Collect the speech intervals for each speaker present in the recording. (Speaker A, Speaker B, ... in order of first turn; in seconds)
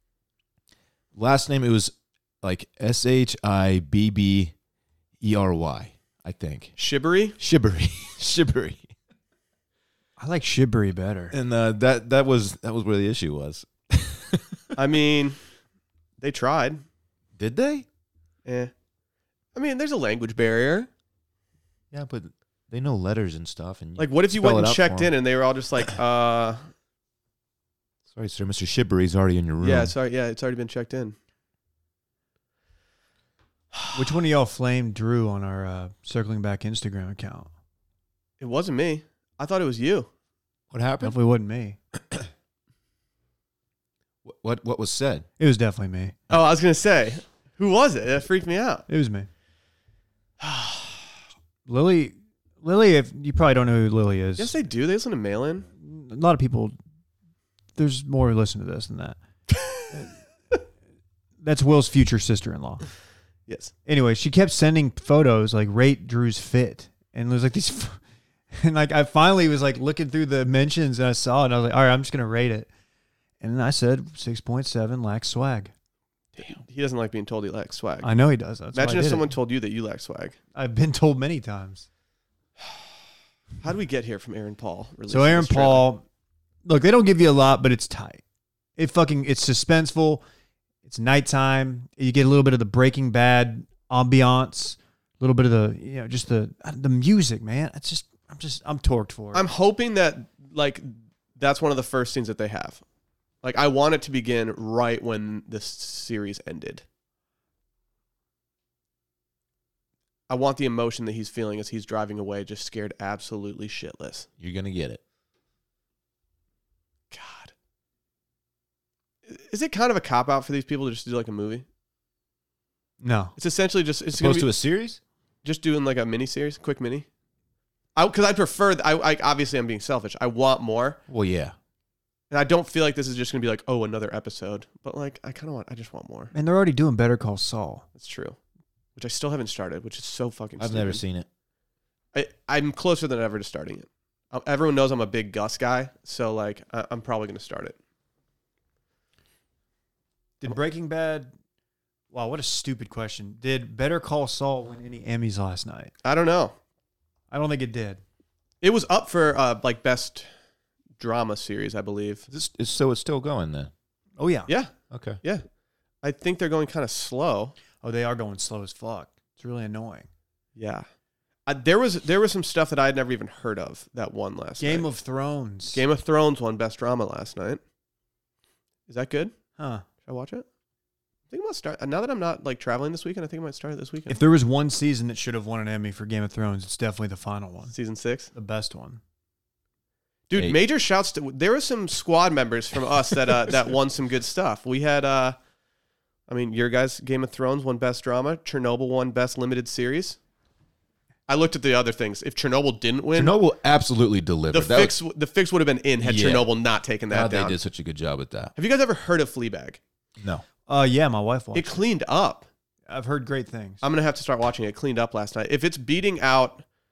Speaker A: 1.1-4.5, 5.2-6.8, 7.4-8.9, 11.3-14.7, 17.4-17.9, 21.9-25.1, 28.1-29.9, 40.7-41.1, 44.2-45.3, 114.4-115.0, 124.2-125.0, 131.1-131.6, 140.6-141.3, 162.3-163.7, 164.9-165.2, 203.1-205.0, 206.0-206.5, 207.1-208.5, 210.2-210.4
Speaker B: 6.8-7.4, 14.8-15.4, 16.2-16.8, 18.4-18.7, 19.6-20.9, 24.0-26.6, 29.6-31.1, 38.4-40.1, 46.3-48.9, 50.4-51.0, 54.4-55.7, 59.5-59.8, 63.5-63.7, 76.4-78.1, 78.7-80.4, 83.6-85.9, 99.3-102.8, 103.4-106.8, 110.3-114.3, 117.1-117.5, 119.3-121.7, 123.4-124.5, 125.4-127.1, 128.0-131.0, 132.3-136.3, 138.0-138.4, 139.0-141.0, 142.1-147.8, 156.0-156.6, 158.6-160.3, 161.0-162.3, 164.5-165.4, 166.0-167.6, 170.6-170.8, 171.5-174.9, 175.7-177.6, 178.9-179.3, 180.1-180.4, 181.3-184.2, 187.7-188.3, 190.3-195.4, 196.3-200.2, 201.3-203.3, 204.5-207.6, 208.6-209.8, 211.5-212.5, 213.8-216.6
Speaker C: 10.2-11.3, 33.9-37.5, 41.0-41.8, 45.4-46.1, 48.9-49.3, 51.7-54.6, 55.8-56.8, 57.8-59.2, 61.4-62.9, 63.9-68.0, 68.5-72.7, 73.4-75.7, 78.0-79.3, 80.5-81.9, 85.1-86.0, 86.6-88.2, 88.8-90.2, 90.8-99.5, 123.0-123.3, 136.3-137.8, 150.4-151.3, 152.1-155.9, 157.3-158.0, 164.2-164.5, 167.8-170.1, 174.6-175.8, 179.6-179.8, 184.1-187.7, 188.3-189.0, 210.7-211.8, 212.9-213.8